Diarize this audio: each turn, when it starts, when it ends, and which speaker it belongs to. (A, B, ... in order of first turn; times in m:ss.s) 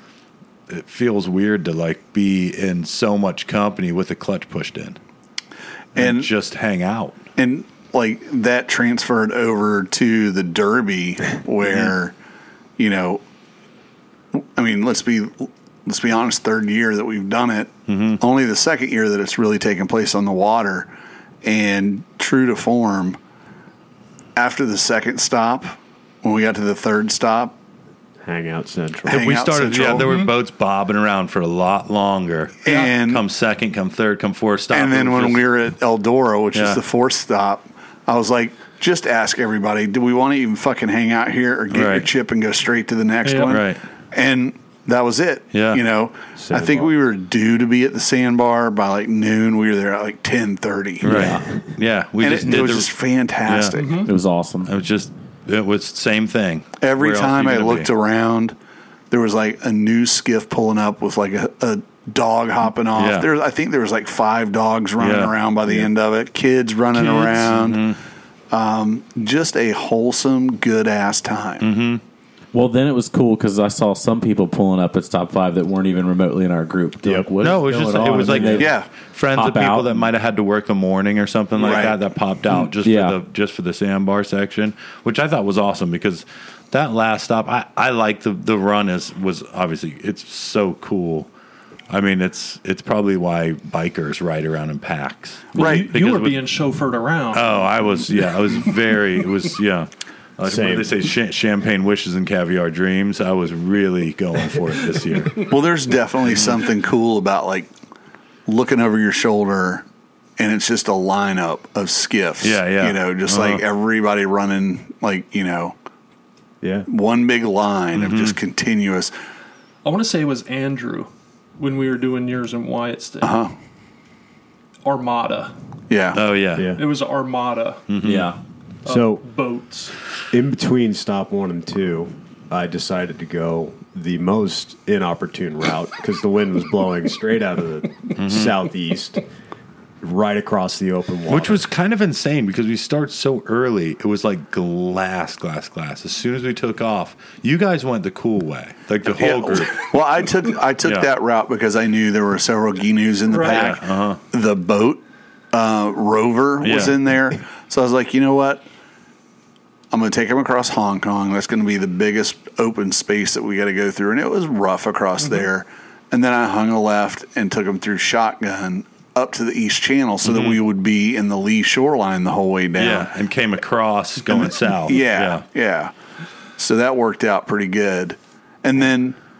0:00.7-0:05.0 A
0:05.9-0:06.3 B
0:05.9-0:07.2 A
0:07.4-0:12.1 B
0:12.8-0:13.2 B
0:14.3-0:20.9 B
0:17.9-0:18.2 A
0:21.4-0:23.2 B
0:24.4-0:27.5 B
0:28.2-0:29.3 C
0:29.0-0:35.5 A
0:29.1-0:30.2 B
0:30.0-0:30.3 D
0:32.6-0:33.2 B
0:34.7-0:51.3 B
0:36.5-0:36.8 A
0:41.7-0:42.1 A
0:43.2-0:43.6 D
0:43.4-0:43.8 A
0:45.5-0:45.8 A
0:46.4-0:46.9 C
0:51.0-0:52.9 A
0:51.0-0:51.4 E
0:51.1-0:51.4 C
0:52.2-0:54.0 B
0:53.4-0:53.8 A
0:53.7-0:54.1 D
0:54.0-0:54.7 E
0:54.6-0:57.9 A
0:56.8-0:58.5 B
0:59.1-1:07.9 B
1:02.9-1:03.3 A
1:05.0-1:05.9 A
1:06.9-1:08.0 A
1:08.5-1:11.6 B
1:11.6-1:12.0 A
1:12.5-1:18.8 E
1:17.0-1:18.7 C
1:17.4-1:31.3 A
1:18.6-1:18.9 B
1:19.3-1:20.1 E
1:21.6-1:22.0 B
1:22.8-1:23.2 E
1:31.9-1:36.4 A
1:35.5-1:38.6 D
1:35.6-1:35.9 B
1:37.3-1:45.5 A
1:40.4-1:41.1 C
1:45.4-1:47.7 B
1:46.3-1:46.6 A
1:48.5-1:49.8 B
1:50.4-1:55.8 B
1:52.4-1:53.6 A
1:56.6-1:56.9 C
1:56.9-1:59.1 B
1:57.9-1:58.4 A
1:59.8-2:03.4 D
2:03.2-2:03.5 B
2:04.8-2:05.5 D
2:05.9-2:06.2 B
2:06.1-2:06.7 A
2:06.6-2:06.8 C
2:06.7-2:07.8 D
2:07.9-2:08.3 A
2:08.0-2:08.4 E
2:08.8-2:09.9 D
2:08.8-2:09.2 C
2:10.3-2:19.2 C
2:18.2-2:18.6 A
2:20.0-2:21.6 C
2:21.3-2:29.8 A
2:29.0-2:38.6 B
2:30.8-2:31.1 A
2:33.3-2:33.7 D
2:33.4-2:34.2 A
2:36.6-2:37.0 A
2:39.9-2:53.1 B
2:50.2-2:50.6 A
2:52.8-2:55.4 A
2:54.3-2:55.9 B
2:56.6-2:59.2 B